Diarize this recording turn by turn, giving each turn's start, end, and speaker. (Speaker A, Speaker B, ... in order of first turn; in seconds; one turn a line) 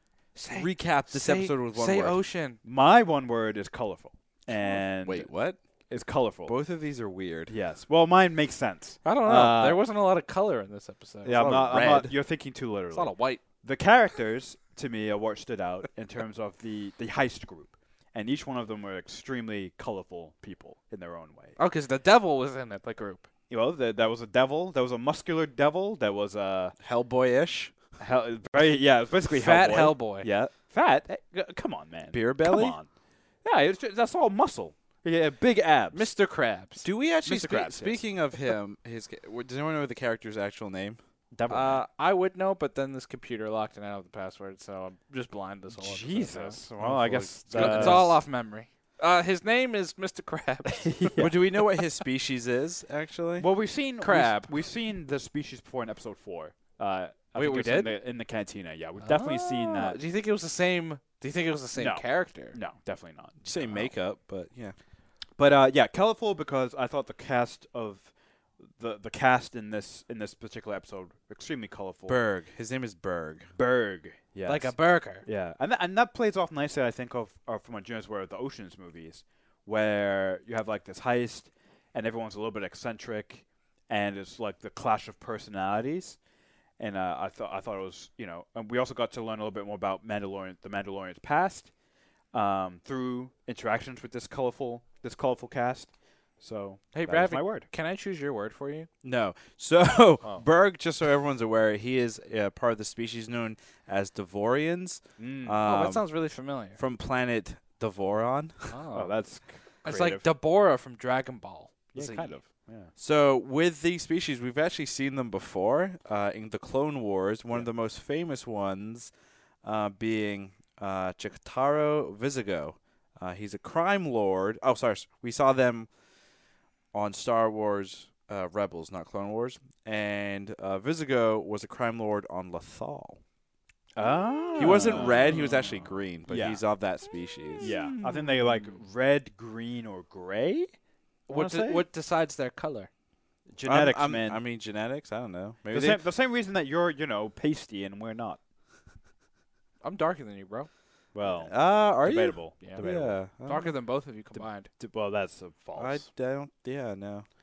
Speaker A: 0.3-2.6
Speaker B: 0.5-2.2
Speaker C: 2.6-5.3
Speaker B: 4.5-5.6
Speaker C: 5.9-6.5
Speaker B: 6.5-7.5
Speaker C: 7.5-9.8
Speaker A: 9.0-11.3
Speaker C: 11.2-21.6
Speaker B: 11.2-12.1
Speaker A: 12.9-13.4
Speaker A: 21.6-23.3
Speaker C: 23.5-26.8
Speaker B: 26.8-27.7
Speaker C: 28.0-32.9
Speaker A: 29.3-30.3
Speaker B: 32.1-32.8
Speaker C: 33.4-36.1
Speaker A: 35.9-36.8
Speaker B: 36.8-41.0
Speaker C: 37.2-38.0
Speaker C: 41.3-41.8
Speaker A: 41.5-46.6
Speaker C: 45.7-48.2
Speaker B: 46.8-48.2
Speaker A: 47.5-51.3
Speaker C: 50.7-51.3
Speaker B: 51.2-53.5
Speaker C: 53.4-60.0
Speaker A: 54.0-54.5
Speaker A: 57.3-57.9
Speaker A: 59.0-62.6
Speaker C: 61.7-63.9
Speaker B: 63.4-64.7
Speaker C: 65.4-68.1
Speaker C: 68.7-72.2
Speaker B: 72.1-73.5
Speaker C: 73.5-86.2
Speaker A: 74.5-75.2
Speaker C: 86.8-91.7
Speaker C: 92.3-97.7
Speaker A: 96.9-98.9
Speaker B: 99.0-106.0
Speaker C: 105.2-105.6
Speaker A: 105.7-106.8
Speaker B: 106.8-108.7
Speaker A: 108.7-109.1
Speaker C: 108.9-110.2
Speaker A: 109.8-112.4
Speaker C: 111.9-112.9
Speaker B: 113.0-119.1
Speaker B: 119.6-125.9
Speaker B: 126.9-133.2
Speaker C: 133.9-135.7
Speaker B: 134.6-137.7
Speaker A: 135.2-135.7
Speaker C: 136.2-136.6
Speaker A: 137.6-138.7
Speaker C: 137.6-140.7
Speaker C: 141.3-141.8
Speaker A: 141.3-142.9
Speaker C: 143.5-144.4
Speaker B: 143.6-146.0
Speaker C: 145.7-148.4
Speaker A: 149.8-150.7
Speaker C: 151.1-153.1
Speaker B: 151.2-153.7
Speaker A: 153.4-154.7
Speaker C: 154.8-156.1
Speaker B: 155.8-157.2